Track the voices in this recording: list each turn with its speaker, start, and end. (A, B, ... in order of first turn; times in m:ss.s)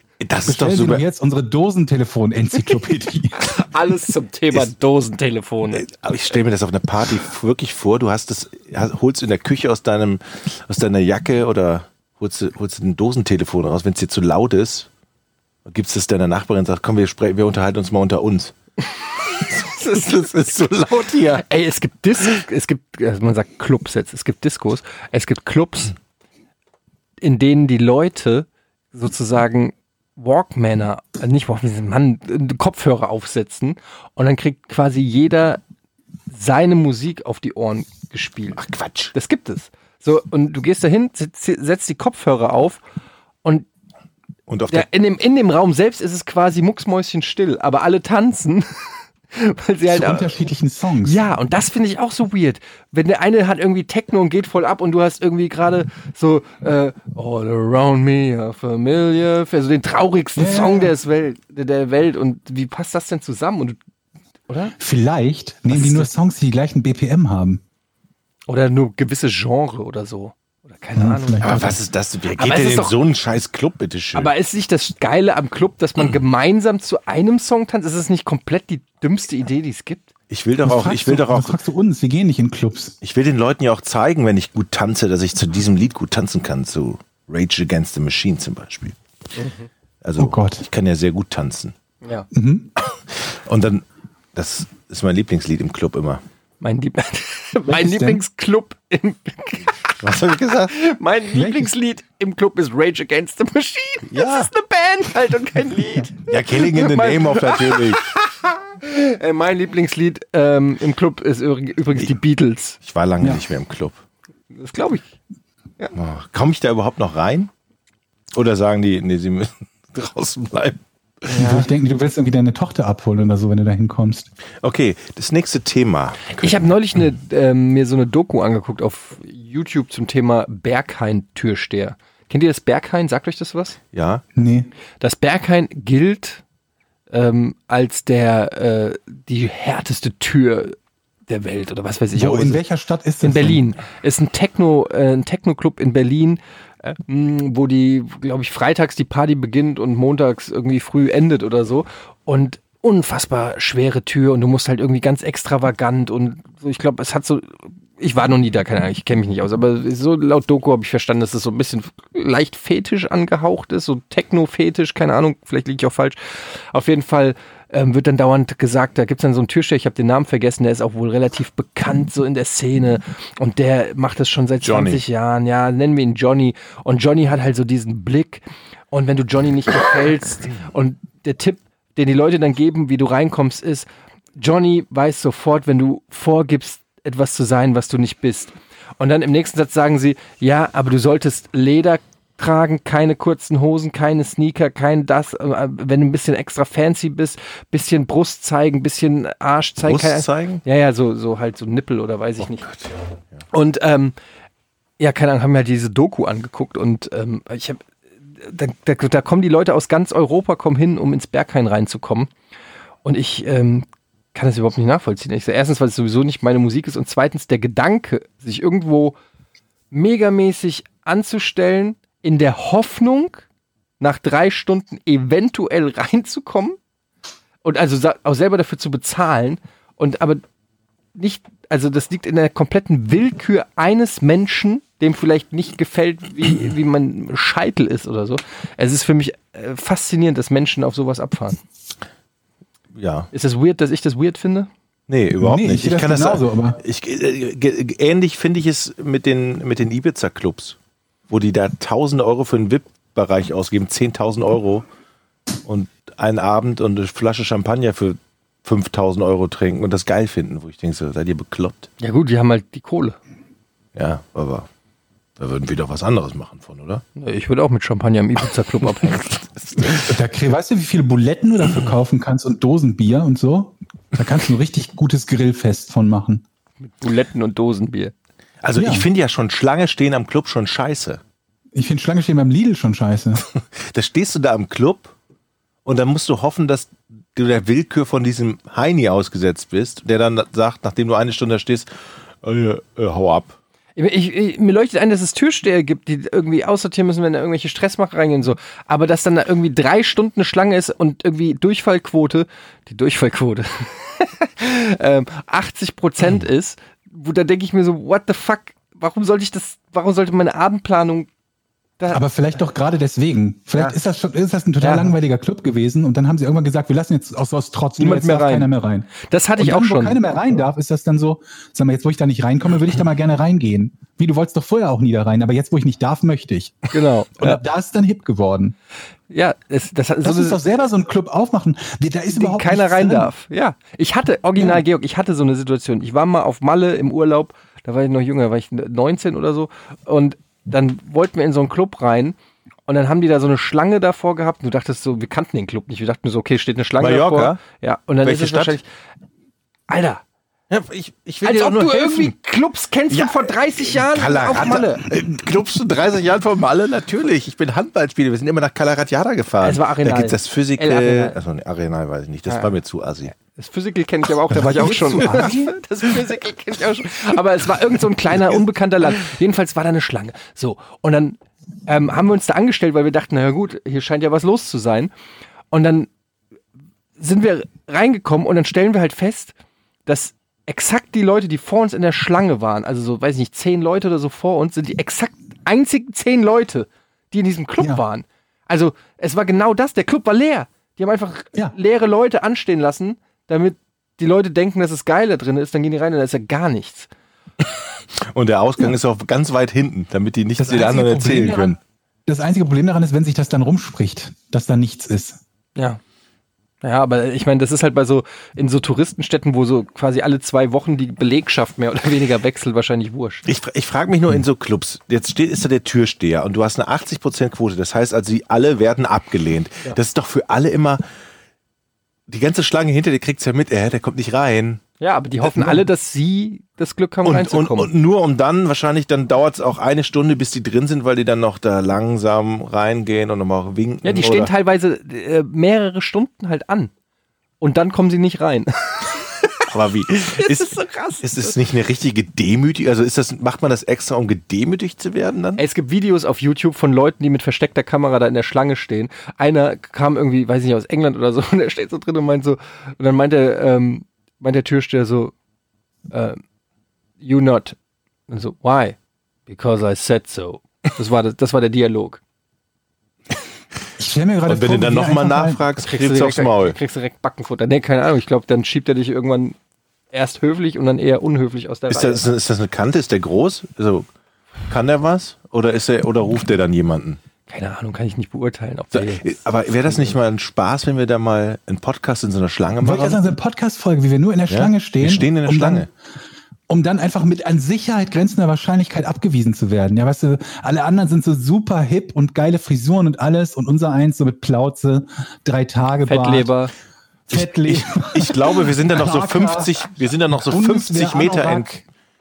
0:00.2-0:01.0 A
0:00.5-0:03.5 B
0:03.3-0:05.9 C
0:05.7-0:14.9 A
0:15.6-0:18.5 A
0:19.2-0:25.9 C
0:27.2-0:35.6 C
0:36.3-0:38.6 C
0:38.6-0:39.1 A
0:39.1-0:42.8 C
0:44.5-0:44.9 A
0:44.7-0:50.4 C
0:49.9-0:51.2 B
0:51.0-1:03.8 C
1:00.4-1:00.9 B
1:04.5-1:04.8 C
1:04.8-1:07.6 B
1:05.7-1:06.1 C
1:08.5-1:11.8 C
1:11.0-1:11.8 B
1:11.4-1:14.3 A
1:12.4-1:13.0 C
1:14.2-1:20.1 C
1:20.3-1:21.6 A
1:20.6-1:23.0 B
1:23.0-1:29.0 A
1:29.4-1:29.7 C
1:30.0-1:31.8 A
1:30.2-1:30.7 B
1:32.0-1:32.3 C
1:32.3-1:32.7 B
1:33.1-1:36.2 A
1:36.6-1:40.0 C
1:37.7-1:38.2 B
1:40.0-1:40.7 A
1:40.7-1:52.8 C
1:41.3-1:41.7 B
1:44.1-1:44.5 A
1:46.3-1:48.1 A
1:52.8-1:54.0 A
1:54.5-1:55.1 C
1:55.9-1:57.5 A
1:58.3-2:01.6 A
2:01.3-2:01.7 C
2:01.3-2:04.3 B
2:04.6-2:06.7 A
2:06.4-2:13.8 C
2:13.9-2:14.2 A
2:14.3-2:14.7 B
2:15.0-2:16.4 C
2:17.1-2:20.8 C
2:21.3-2:22.6 C
2:22.2-2:23.6 B
2:23.2-3:22.7 C
2:54.6-2:55.0 A
3:19.8-3:20.6 A
3:23.5-3:24.2 C
3:25.0-3:27.8 C
3:28.4-3:32.3 C
3:33.0-3:39.2 C
3:39.9-3:43.4 C
3:44.0-3:46.8 C
3:47.6-3:50.4 C
3:51.2-4:01.6 C
4:03.0-4:03.3 A
4:03.3-4:04.7 C
4:05.1-4:10.8 A
4:05.4-4:06.8 B
4:11.3-4:14.8 A
4:15.6-4:21.9 A
4:22.0-4:23.2 C
4:24.0-4:24.7 A
4:25.4-4:27.0 A
4:27.2-4:30.0 C
4:29.8-4:30.1 A
4:30.0-4:36.4 B
4:36.8-4:38.1 C
4:38.6-4:41.2 A
4:38.8-4:39.1 B
4:41.7-4:43.4 B
4:43.5-4:45.1 A
4:45.8-4:51.9 A
4:52.4-4:53.6 A
4:54.0-5:11.3 C
5:12.0-5:12.3 C
5:12.1-5:28.8 B
5:13.7-5:14.0 C
5:14.8-5:15.1 C
5:18.0-5:18.7 C
5:19.2-5:20.2 C
5:26.9-5:27.6 C
5:29.3-5:30.6 C
5:30.2-5:33.3 B
5:32.3-5:42.4 C
5:34.6-5:34.8 B
5:42.9-5:48.8 C
5:47.0-5:47.6 A
5:48.2-5:48.8 A
5:49.9-5:50.2 C
5:50.7-5:52.3 A
5:51.4-5:55.0 C
5:53.1-6:03.3 A
5:59.6-6:01.4 C
6:03.4-6:15.1 C
6:04.5-6:05.7 B
6:15.7-6:16.1 C
6:17.2-6:19.6 C
6:20.1-6:37.1 C
6:27.8-6:28.0 B
6:38.2-6:41.8 A
6:40.6-6:45.4 B
6:46.8-6:53.5 C
6:53.5-7:01.0 A
7:02.3-7:04.8 A
7:05.0-7:07.9 C
7:05.5-7:05.8 A
7:07.2-7:14.5 A
7:14.0-7:16.9 C
7:17.6-7:19.7 C
7:19.7-7:25.6 A
7:20.2-7:21.6 C
7:25.6-7:35.3 C
7:36.1-7:36.4 C
7:37.2-7:37.8 C
7:38.3-7:39.0 C
7:39.5-7:42.2 C
7:44.0-7:45.6 B
7:44.5-7:46.8 A
7:45.8-7:49.6 C
7:50.1-7:52.2 C
7:51.9-7:54.1 A
7:54.7-7:57.2 A
7:57.5-8:00.2 C
7:58.9-8:03.2 A
8:02.8-8:05.9 B
8:04.5-8:05.9 A
8:06.7-8:16.5 B
8:16.1-8:16.7 C
8:17.3-8:21.8 B
8:17.3-8:21.8 A